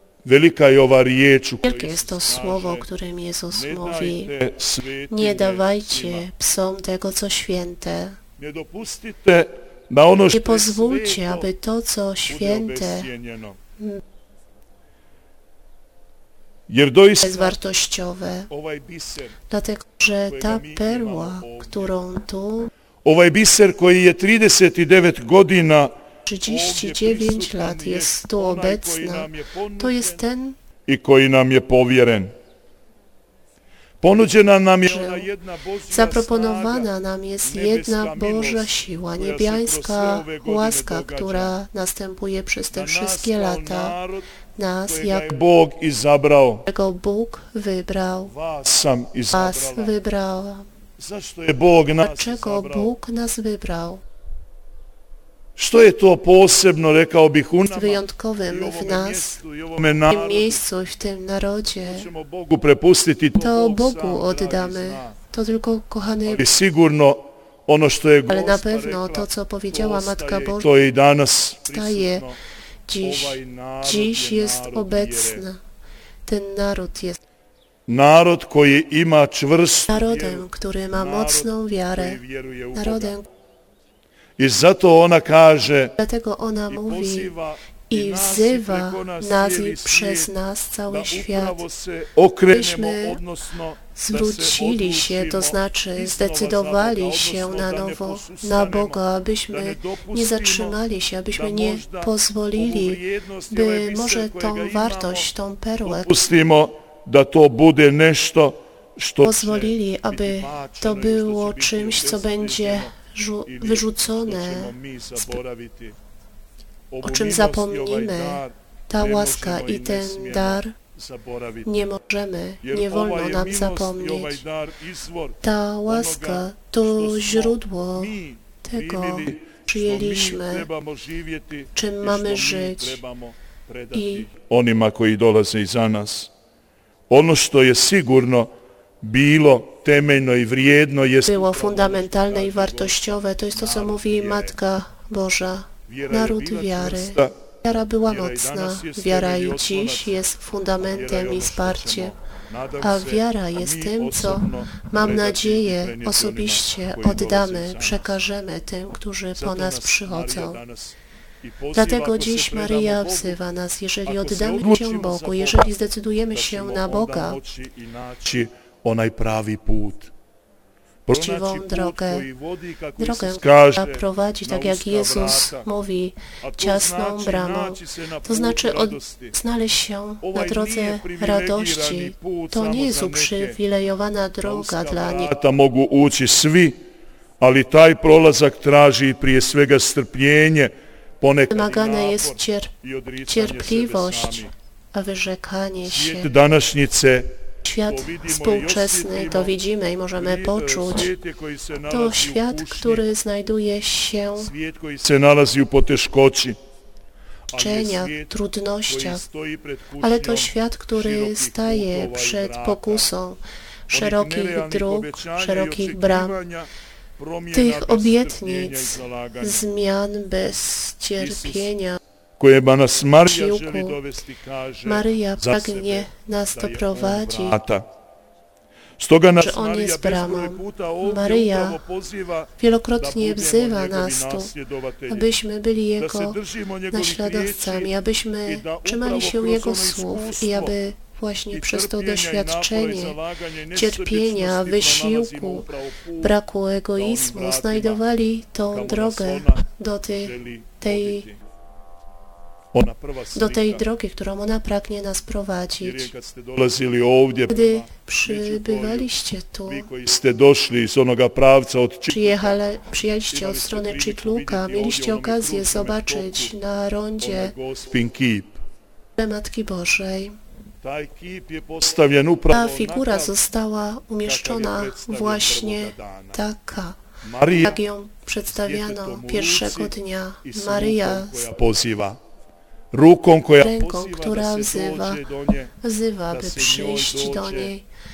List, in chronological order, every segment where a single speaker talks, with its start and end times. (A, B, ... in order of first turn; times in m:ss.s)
0:00.2-0:02.9 A
0:01.6-0:04.4 B
0:03.5-0:06.3 A
0:05.1-0:08.2 B
0:08.4-0:11.5 A
0:10.3-0:13.1 B
0:12.3-0:13.6 A
0:16.7-0:17.6 A
0:17.2-0:18.5 B
0:18.5-0:19.4 A
0:19.5-0:22.7 B
0:20.3-0:21.9 A
0:23.0-0:25.9 A
0:26.3-0:30.6 B
0:26.5-0:30.2 A
0:30.9-0:32.3 A
0:34.0-0:36.9 A
0:34.8-0:35.3 B
0:35.9-0:44.0 B
0:37.4-0:41.6 A
0:42.7-0:44.3 A
0:44.6-0:45.4 B
0:44.9-0:46.6 A
0:46.7-0:48.3 B
0:48.3-0:50.0 A
0:49.3-0:50.7 B
0:51.0-0:53.0 A
0:52.0-0:54.0 B
0:55.6-1:00.6 A
0:57.6-0:59.4 B
1:00.1-1:02.1 B
1:01.8-1:05.2 A
1:03.4-1:06.5 B
1:06.3-1:12.4 A
1:08.3-1:10.7 B
1:11.7-1:12.3 B
1:12.9-1:15.6 B
1:13.0-1:15.4 A
1:16.2-1:17.2 B
1:17.9-1:23.2 A
1:19.9-1:22.2 B
1:22.7-1:23.3 B
1:24.4-1:26.0 A
1:26.0-1:27.4 B
1:26.7-1:30.3 A
1:27.9-1:31.6 B
1:30.9-1:40.8 A
1:32.5-1:33.2 B
1:34.0-1:46.1 B
1:41.3-1:45.3 A
1:45.8-1:52.9 A
1:49.2-1:55.4 B
1:53.5-1:56.0 A
1:56.9-2:01.8 A
1:57.0-2:00.8 B
2:01.7-2:04.4 B
2:02.6-2:16.3 A
2:05.4-2:10.7 B
2:11.8-2:13.0 B
2:13.9-2:14.3 B
2:17.1-2:18.5 A
2:19.0-2:24.6 A
2:21.2-2:32.1 B
2:25.9-2:27.3 A
2:28.0-2:30.2 A
2:30.8-2:38.2 A
2:32.8-2:40.6 B
2:39.4-2:43.4 A
2:41.7-2:47.4 B
2:44.0-2:45.7 A
2:46.3-2:50.1 A
2:51.1-2:55.7 A
2:51.1-2:52.3 B
2:53.0-3:05.3 B
2:56.4-2:59.4 A
3:00.2-3:03.6 A
3:04.4-3:06.8 A
3:07.4-3:14.5 A
3:11.5-3:12.7 B
3:13.3-3:16.4 B
3:15.8-3:19.6 A
3:17.6-3:21.1 B
3:20.2-3:23.1 A
3:21.9-3:24.5 B
3:24.4-3:26.6 A
3:27.5-3:28.3 A
3:27.5-3:29.2 B
3:28.9-3:33.1 A
3:30.0-3:36.4 B
3:33.9-3:39.7 A
3:37.5-3:42.0 B
3:41.2-3:41.7 A
3:42.4-3:47.8 A
3:43.2-3:44.0 B
3:44.8-3:47.6 B
3:49.0-3:55.3 A
3:49.4-3:51.8 B
3:52.6-3:54.5 B
3:55.1-3:56.4 B
3:56.0-3:58.0 A
3:56.9-4:03.2 B
3:58.5-4:00.8 A
4:01.5-4:06.4 A
4:03.7-4:05.7 B
4:06.2-4:11.3 B
4:07.0-4:08.0 A
4:08.7-4:11.4 A
4:12.7-4:13.8 A
4:13.4-4:16.1 B
4:15.8-4:19.1 A
4:17.5-4:19.9 B
4:19.7-4:22.6 A
4:22.1-4:27.5 B
4:23.3-4:26.5 A
4:27.2-4:28.6 A
4:29.2-4:30.4 B
4:30.8-4:33.3 A
4:32.5-4:37.0 B
4:34.2-4:36.4 A
4:37.2-4:37.8 A
4:37.5-4:41.5 B
4:38.5-4:42.2 A
4:42.9-4:45.7 A
4:43.6-4:45.2 B
4:45.8-4:47.9 B
4:46.3-4:47.7 A